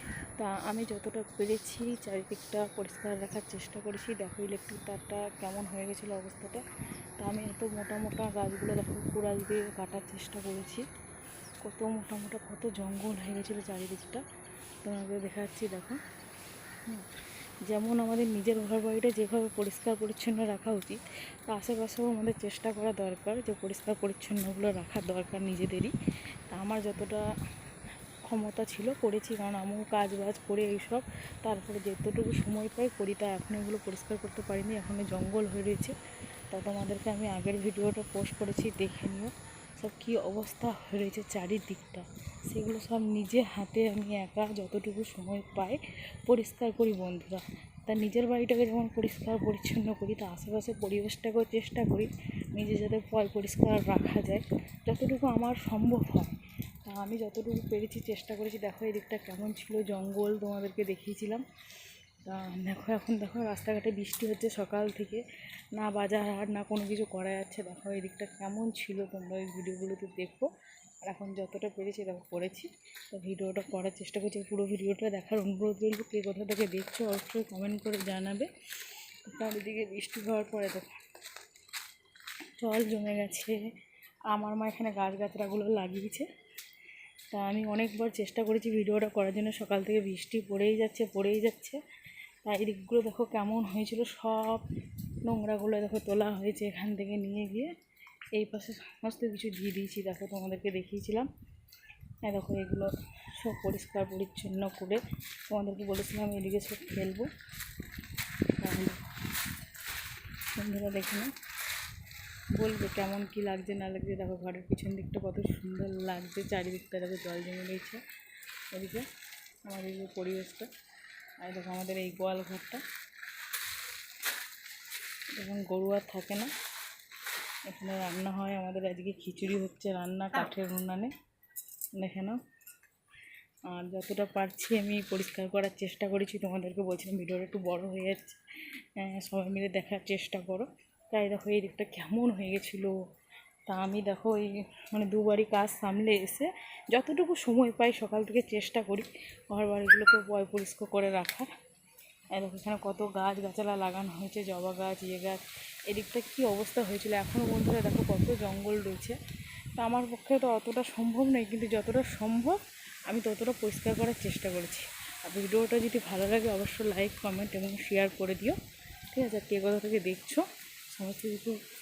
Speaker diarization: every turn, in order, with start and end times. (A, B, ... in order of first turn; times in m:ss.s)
0:00.4-0:06.6 A
0:07.2-0:10.8 A
0:11.6-0:14.2 A
0:14.8-0:16.0 A
0:17.6-0:26.0 A
0:26.5-0:27.2 A
0:28.2-0:36.0 A
0:36.5-1:01.4 A
1:02.2-1:10.5 A
1:11.0-1:20.9 A
1:22.6-1:23.6 A
1:24.3-1:26.3 A
1:27.3-1:31.8 A
1:32.4-1:34.7 A
1:35.2-1:37.7 A
1:38.3-1:41.3 A
1:42.2-1:47.3 A
1:48.6-1:49.0 A
1:50.5-1:51.3 A
1:52.6-1:58.0 A
1:58.7-1:59.1 A
1:59.7-2:00.7 A
2:01.4-2:02.8 A
2:05.3-2:06.5 A
2:07.7-2:11.1 A
2:11.9-2:12.4 A
2:13.7-2:18.4 A
2:19.0-2:23.0 A
2:23.7-2:31.5 A
2:32.3-2:39.2 A
2:39.8-2:48.6 A
2:49.1-2:51.6 A